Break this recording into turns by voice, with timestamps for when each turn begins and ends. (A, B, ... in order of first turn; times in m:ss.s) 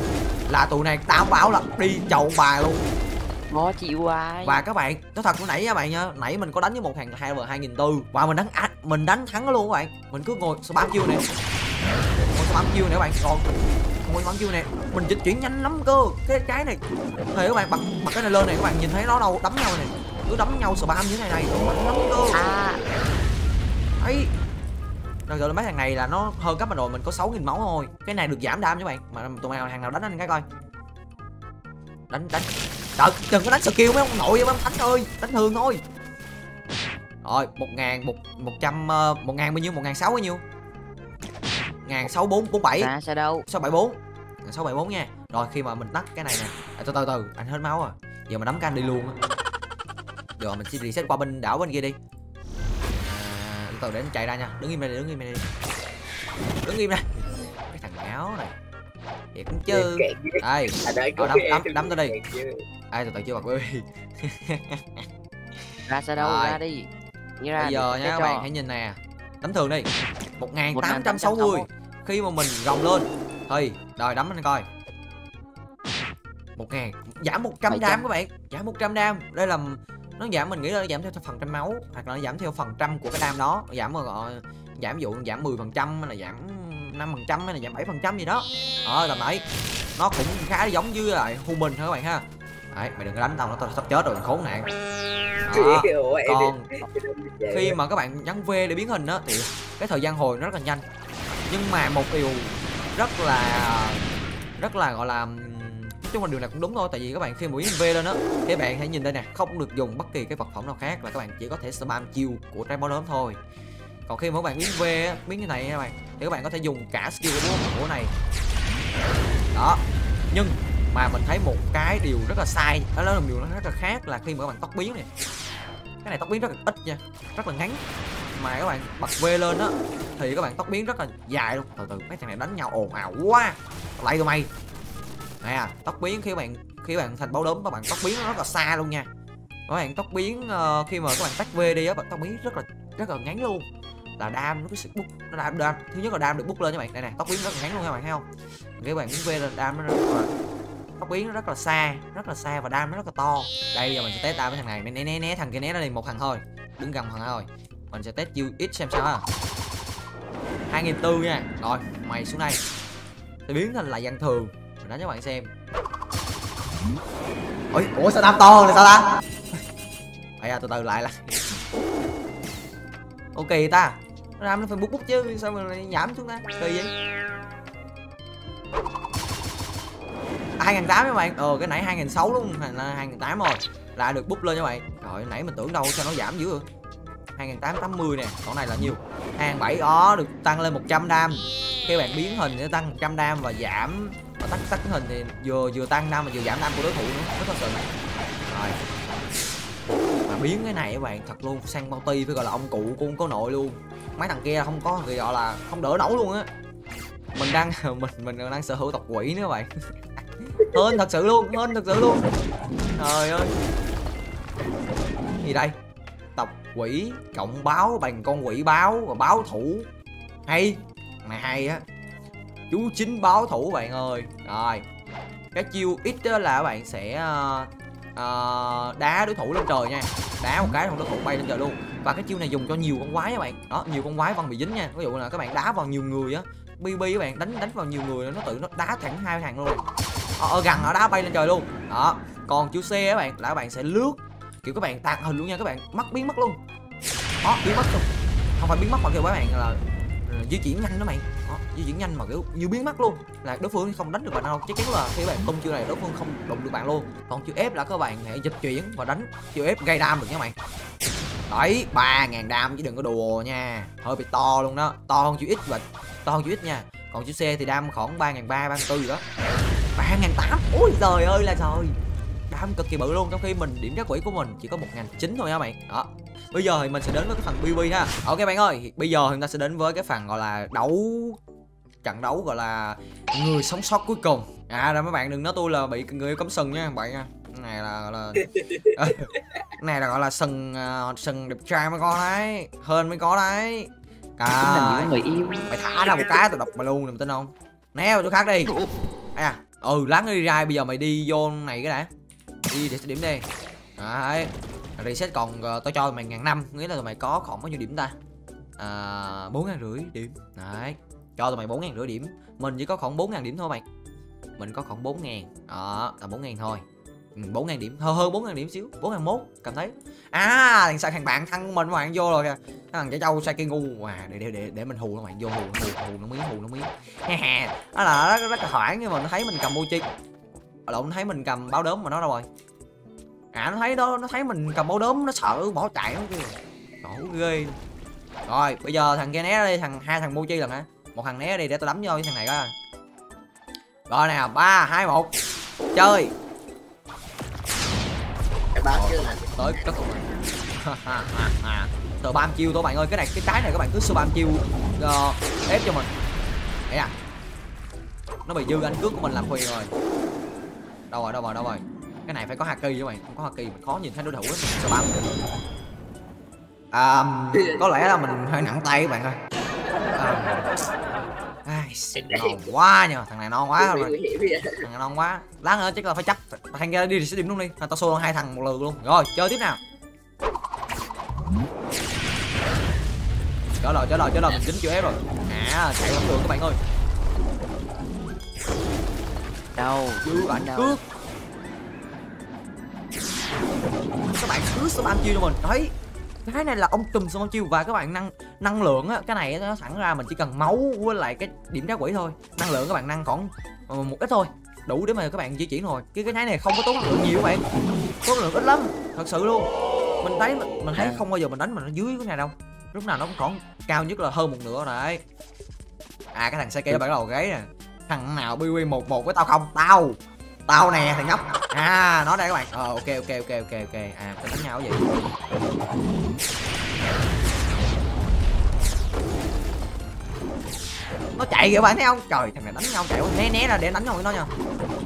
0:00.5-0:02.8 A
0:03.5-0:04.6 B
0:04.4-0:11.2 A
0:12.3-0:13.5 A
0:14.0-0:16.8 A
0:17.3-0:22.4 A
0:22.3-0:22.8 B
0:24.0-0:24.3 A
0:25.3-0:30.4 A
0:32.1-0:35.8 A
0:37.2-0:40.4 A
0:41.8-0:42.9 A
0:42.8-0:43.4 B
0:43.5-0:49.2 A
0:50.4-0:52.0 A
0:53.0-0:55.5 A
0:56.6-0:58.6 A
0:59.3-1:02.2 A
0:59.7-1:02.6 C
1:02.9-1:05.1 A
1:05.9-1:08.5 B
1:06.2-1:06.6 A
1:07.6-1:14.6 A
1:10.7-1:11.7 B
1:16.6-1:29.4 A
1:17.7-1:18.0 B
1:30.0-1:34.7 A
1:35.5-1:36.7 A
1:35.5-1:37.8 C
1:37.5-1:40.8 A
1:41.5-1:44.1 A
1:44.6-1:53.4 A
1:54.1-1:58.1 A
1:59.5-2:05.1 A
2:06.0-2:14.5 A
2:15.4-2:19.1 A
2:19.7-2:23.7 A
2:24.2-2:28.3 A
2:28.8-2:30.3 A
2:31.0-2:39.2 A
2:40.7-2:42.6 A
2:43.5-2:45.5 A
2:47.7-2:49.1 A
2:50.4-2:51.6 A
2:53.4-2:56.9 A
3:00.6-3:06.6 A
3:07.4-3:17.9 A
3:18.5-3:18.8 A
3:20.3-3:26.5 A
3:27.4-3:29.7 A
3:30.4-3:32.2 A
3:33.0-3:33.6 A
3:35.4-3:35.8 A
3:36.4-3:39.9 A
3:40.5-3:41.8 A
3:42.7-3:44.8 A
3:45.5-3:59.8 A
4:00.4-4:06.6 A
4:07.4-4:20.6 A
4:21.5-4:29.2 A
4:30.0-4:32.0 A
4:32.5-4:41.4 A
4:42.0-4:55.1 A
4:54.5-4:55.6 B
4:55.7-4:58.7 A
4:59.4-5:02.1 A
5:02.7-5:03.5 A
5:04.0-5:08.2 A
5:08.8-5:13.8 A
5:14.6-5:16.8 A
5:17.4-5:30.0 A
5:30.9-5:32.5 A
5:33.5-5:37.8 A
5:38.5-5:42.7 A
5:44.1-5:45.4 A
5:45.9-5:46.3 A
5:48.8-5:50.0 C
5:48.9-5:50.3 A
5:50.8-5:56.1 A
5:58.5-5:59.9 A
6:01.1-6:05.4 A
6:06.9-6:09.4 A
6:07.5-6:08.0 C
6:10.2-6:10.7 A
6:11.6-6:14.2 A
6:12.2-6:12.7 C
6:13.8-6:14.9 C
6:14.8-6:19.8 A
6:23.8-6:26.8 A
6:29.8-6:31.0 B
6:30.2-6:31.0 A
6:34.3-6:35.9 A
6:36.4-6:47.6 A
6:48.2-6:49.7 A
6:50.2-6:55.2 A
6:51.0-6:51.2 B
6:56.3-7:05.1 A
7:11.4-7:14.5 A